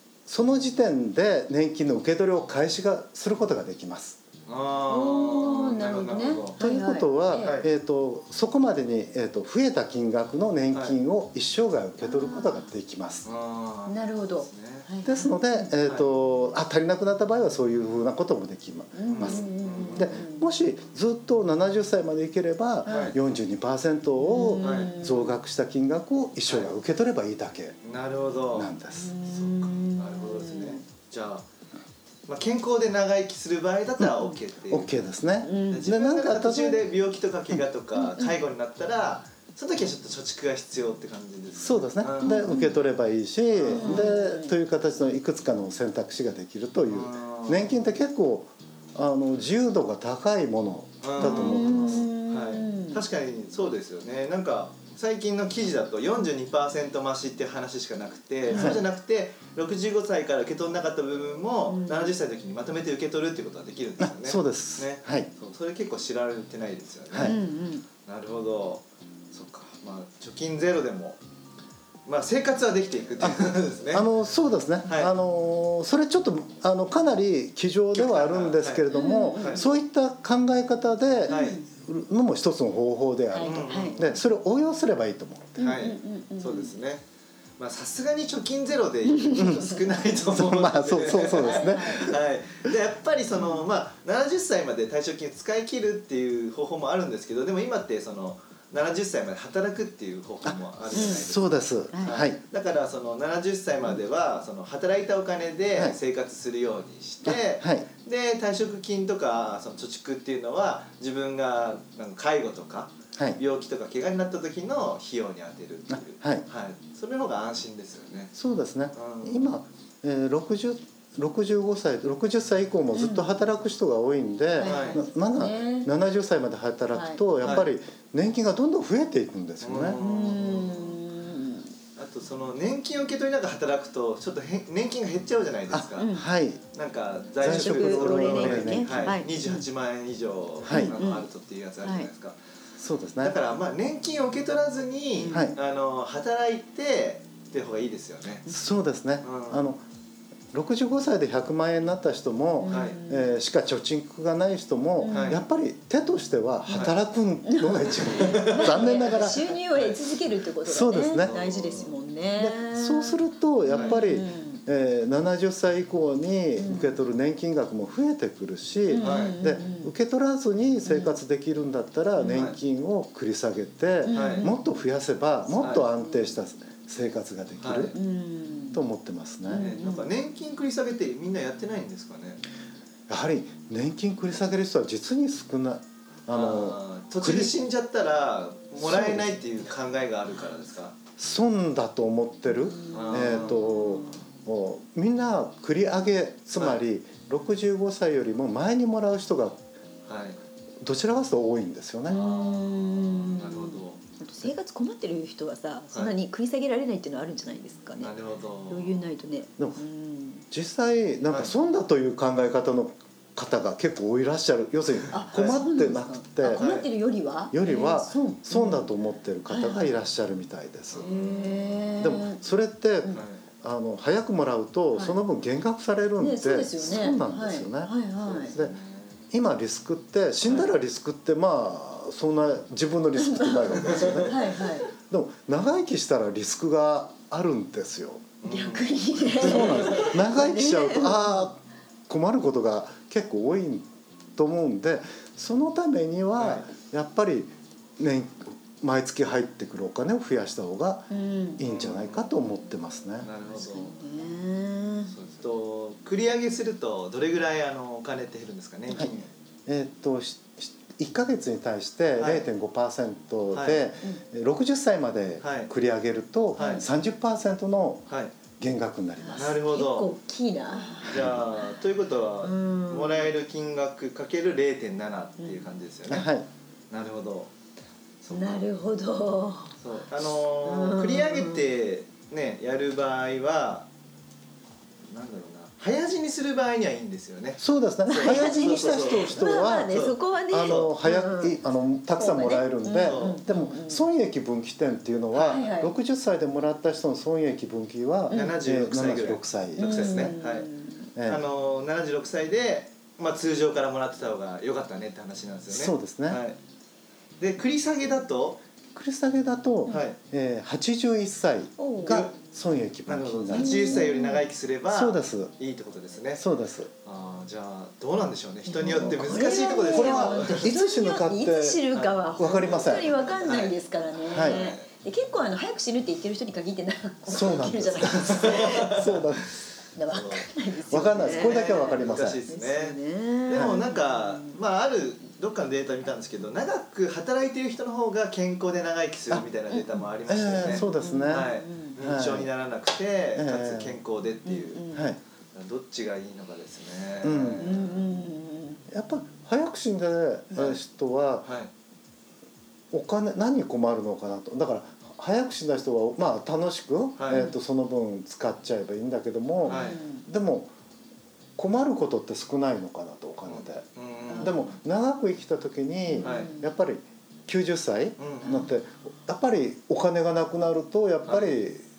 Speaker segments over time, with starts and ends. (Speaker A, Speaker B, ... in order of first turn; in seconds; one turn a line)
Speaker A: 0.3-4.2
Speaker B: 4.5-6.6
Speaker C: 4.9-7.6
Speaker A: 6.6-13.3
Speaker B: 7.4-7.7
Speaker C: 12.0-12.7
Speaker B: 13.2-14.9
Speaker C: 13.9-15.7
Speaker A: 15.0-27.8
Speaker C: 18.9-20.5
Speaker B: 19.1-20.2
Speaker C: 22.9-23.1
Speaker B: 22.9-23.1
Speaker C: 24.2-25.3
Speaker B: 24.6-24.9
Speaker B: 27.8-28.7
Speaker A: 28.5-29.1
Speaker C: 28.9-30.8
Speaker B: 29.2-31.4
Speaker B: 32.3-35.1
Speaker A: 34.7-36.8
Speaker C: 35.4-35.9
Speaker B: 35.7-42.4
Speaker C: 38.0-38.4
Speaker A: 41.6-52.1
Speaker C: 42.2-42.8
Speaker B: 43.5-44.1
Speaker C: 43.7-44.5
Speaker B: 46.9-47.8
Speaker B: 51.0-67.4
Speaker C: 51.2-53.0
Speaker C: 58.5-58.8
Speaker A: 58.5-58.8
Speaker C: 61.7-62.1
Speaker A: 64.0-65.3
Speaker A: 67.1-67.4
Speaker C: 67.2-67.8
Speaker B: 68.0-71.2
Speaker B: 72.0-74.1
Speaker A: 73.2-85.6
Speaker B: 74.8-75.1
Speaker B: 77.9-79.6
Speaker C: 78.9-79.7
Speaker C: 81.3-81.7
Speaker B: 81.3-81.6
Speaker C: 83.3-84.0
Speaker B: 83.4-84.2
Speaker C: 85.6-86.7
Speaker B: 85.6-87.0
Speaker B: 87.6-118.3
Speaker C: 89.1-90.0
Speaker A: 89.4-89.6
Speaker A: 90.2-92.2
Speaker C: 91.0-92.1
Speaker C: 93.3-93.6
Speaker A: 100.5-102.4
Speaker C: 100.9-101.2
Speaker C: 101.9-102.2
Speaker A: 107.2-107.8
Speaker A: 115.9-116.4
Speaker A: 118.3-130.0
Speaker B: 118.9-119.5
Speaker C: 122.9-123.4
Speaker C: 124.6-125.9
Speaker B: 124.6-125.0
Speaker C: 126.9-127.5
Speaker B: 129.6-131.0
Speaker C: 130.0-131.7
Speaker B: 132.0-136.1
Speaker A: 135.7-136.6
Speaker C: 136.0-136.3
Speaker B: 136.7-142.4
Speaker A: 137.4-139.2
Speaker C: 137.4-139.6
Speaker A: 140.6-140.9
Speaker C: 140.7-141.3
Speaker C: 141.8-142.1
Speaker A: 142.8-143.4
Speaker B: 143.2-148.5
Speaker C: 145.2-145.5
Speaker A: 145.3-145.6
Speaker A: 148.5-149.8
Speaker B: 149.2-149.7
Speaker A: 150.5-159.4
Speaker C: 152.6-153.3
Speaker B: 152.7-153.0
Speaker C: 155.0-155.4
Speaker B: 155.1-155.4
Speaker B: 156.7-157.0
Speaker C: 157.4-164.6
Speaker B: 158.1-160.0
Speaker A: 160.6-161.3
Speaker B: 161.2-161.9
Speaker A: 162.4-178.0
Speaker B: 163.7-164.0
Speaker C: 166.6-167.0
Speaker C: 168.9-169.9
Speaker B: 169.0-169.3
Speaker C: 170.8-171.2
Speaker C: 172.2-172.5
Speaker B: 172.3-172.6
Speaker C: 174.0-174.6
Speaker B: 174.1-174.5
Speaker B: 175.6-175.9
Speaker C: 175.8-176.3
Speaker B: 177.6-177.9
Speaker C: 177.9-178.8
Speaker A: 178.7-179.7
Speaker C: 179.5-180.1
Speaker B: 179.5-182.4
Speaker A: 183.1-187.5
Speaker B: 186.3-190.9
Speaker A: 188.8-189.4
Speaker A: 191.2-199.6
Speaker C: 192.7-194.2
Speaker B: 192.9-193.7
Speaker B: 200.1-200.4
Speaker A: 200.8-202.2
Speaker C: 202.1-208.1
Speaker B: 202.1-204.0
Speaker B: 208.0-209.0
Speaker C: 208.7-210.4
Speaker A: 210.5-216.7
Speaker C: 215.1-218.9
Speaker B: 215.3-215.6
Speaker B: 216.5-216.9
Speaker A: 217.5-221.1
Speaker C: 219.5-219.9
Speaker B: 220.9-221.9
Speaker C: 221.0-222.4
Speaker A: 222.0-228.7
Speaker B: 223.1-223.4
Speaker C: 224.9-225.2
Speaker C: 226.2-228.5
Speaker B: 228.5-229.2
Speaker A: 229.3-234.4
Speaker B: 230.4-230.7
Speaker C: 233.2-234.9
Speaker B: 233.8-234.3
Speaker A: 235.0-238.3
Speaker B: 238.4-240.1
Speaker C: 238.4-241.5
Speaker A: 239.4-253.3
Speaker B: 246.4-246.7
Speaker C: 251.1-251.6
Speaker B: 251.6-252.3
Speaker B: 253.2-254.0
Speaker C: 253.5-255.1
Speaker B: 255.1-259.3
Speaker A: 259.6-268.1
Speaker B: 262.2-262.4
Speaker B: 263.5-263.8
Speaker B: 265.4-265.7
Speaker B: 266.6-266.8
Speaker C: 266.6-266.8
Speaker A: 268.6-269.6
Speaker C: 269.2-271.8
Speaker B: 269.4-270.1
Speaker B: 271.0-276.3
Speaker C: 272.4-273.3
Speaker A: 276.1-276.5
Speaker B: 276.9-277.5
Speaker B: 278.2-278.7
Speaker C: 278.3-279.7
Speaker B: 279.8-283.9
Speaker C: 280.4-281.6
Speaker B: 285.1-290.9
Speaker A: 287.6-300.3
Speaker C: 288.1-291.6
Speaker C: 292.1-294.0
Speaker B: 293.0-293.4
Speaker C: 295.3-295.9
Speaker C: 298.3-298.6
Speaker B: 298.3-300.7
Speaker C: 299.8-301.1
Speaker A: 301.1-301.4
Speaker B: 301.2-306.6
Speaker A: 305.7-306.4
Speaker B: 307.4-308.6
Speaker A: 308.9-314.1
Speaker B: 309.9-310.1
Speaker C: 311.8-312.3
Speaker B: 312.1-312.3
Speaker B: 313.1-316.4
Speaker C: 313.5-314.4
Speaker A: 314.9-315.5
Speaker A: 316.4-316.9
Speaker B: 317.0-320.7
Speaker C: 318.7-329.0
Speaker A: 318.9-321.8
Speaker B: 321.9-324.9
Speaker A: 322.4-323.1
Speaker A: 324.3-324.6
Speaker A: 327.3-329.5
Speaker B: 328.1-329.2
Speaker C: 329.9-334.6
Speaker B: 330.1-330.5
Speaker A: 330.9-332.4
Speaker B: 331.1-344.8
Speaker A: 340.3-342.5
Speaker C: 340.6-342.0
Speaker A: 343.4-344.0
Speaker C: 344.4-345.1
Speaker A: 344.9-345.2
Speaker B: 345.5-348.1
Speaker A: 347.2-347.7
Speaker C: 347.6-348.8
Speaker A: 348.9-351.5
Speaker B: 351.4-351.7
Speaker A: 352.9-360.7
Speaker B: 357.2-357.5
Speaker C: 357.3-357.6
Speaker C: 359.6-360.2
Speaker B: 359.7-360.0
Speaker A: 361.6-363.9
Speaker B: 363.5-364.6
Speaker C: 364.3-364.7
Speaker A: 364.4-371.9
Speaker C: 366.1-366.7
Speaker B: 366.2-366.5
Speaker B: 368.2-368.7
Speaker B: 371.2-371.5